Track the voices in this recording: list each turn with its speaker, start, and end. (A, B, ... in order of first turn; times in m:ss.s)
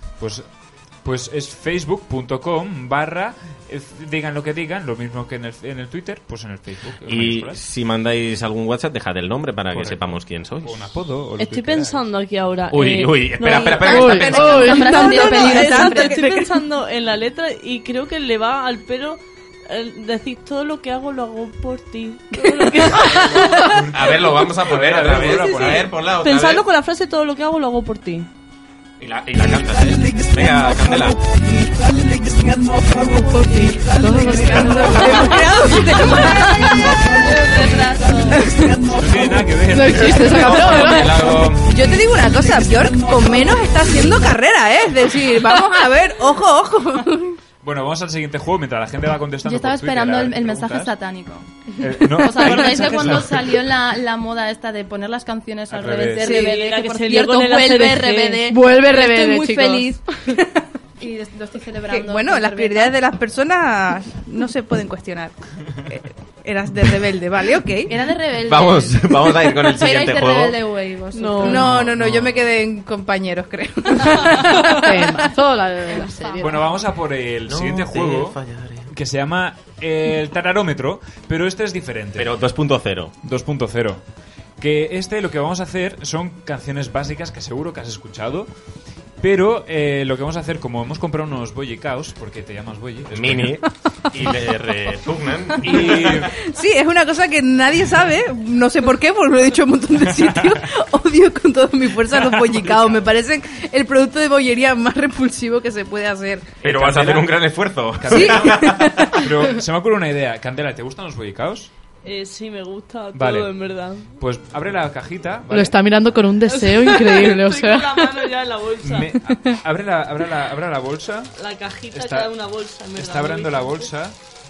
0:00.2-0:00.5 A
0:01.0-0:07.6 A
0:07.1-0:10.8 B
0:09.7-0:12.0 A
0:11.4-0:23.5 C
0:12.7-0:14.8 B
0:13.9-0:14.9 D
0:14.3-0:16.4 E
0:14.6-0:16.2 F
0:23.0-0:25.9 A
0:23.9-0:26.6 B
0:25.4-0:28.3 C
0:29.0-0:31.2 B
0:33.1-0:35.2 D
0:34.2-0:35.4 F
0:34.5-0:37.0 E
0:37.3-0:38.3 F
0:38.4-0:38.9 E
0:38.9-0:41.6 A
0:39.7-0:41.1 D
0:40.2-0:41.5 B
0:41.6-0:47.4 E
0:47.6-0:50.9 A
0:49.5-0:51.4 F
0:51.8-0:53.5 A
0:52.1-1:00.0 F
0:55.7-0:56.4 A
0:56.2-0:56.6 E
0:56.3-0:58.6 C
0:58.5-0:59.9 D
1:01.0-1:02.9 F
1:01.9-1:05.3 E
1:05.9-1:07.9 E
1:07.9-1:09.0 F
1:08.4-1:10.6 B
1:09.7-1:11.6 F
1:11.1-1:11.7 C
1:11.4-1:15.1 E
1:11.7-1:12.3 A
1:14.8-1:16.4 D
1:16.4-1:18.4 A
1:17.5-1:18.9 B
1:18.9-1:22.3 A
1:22.2-1:23.1 B
1:23.2-1:24.0 A
1:24.6-1:28.5 A
1:29.2-1:33.6 A
1:33.1-1:36.3 B
1:35.6-1:36.3 A
1:36.4-1:46.5 E
1:42.3-1:43.0 A
1:46.6-1:47.3 A
1:46.6-1:49.0 B
1:48.0-1:51.7 A
1:48.1-1:49.1 E
1:52.0-1:54.1 C
1:53.1-1:53.5 A
1:54.2-1:55.8 A
1:55.5-1:58.3 D
1:56.4-1:59.1 C
1:58.8-2:01.3 A
2:01.4-2:03.9 C
2:01.9-2:02.3 A
2:03.0-2:04.2 A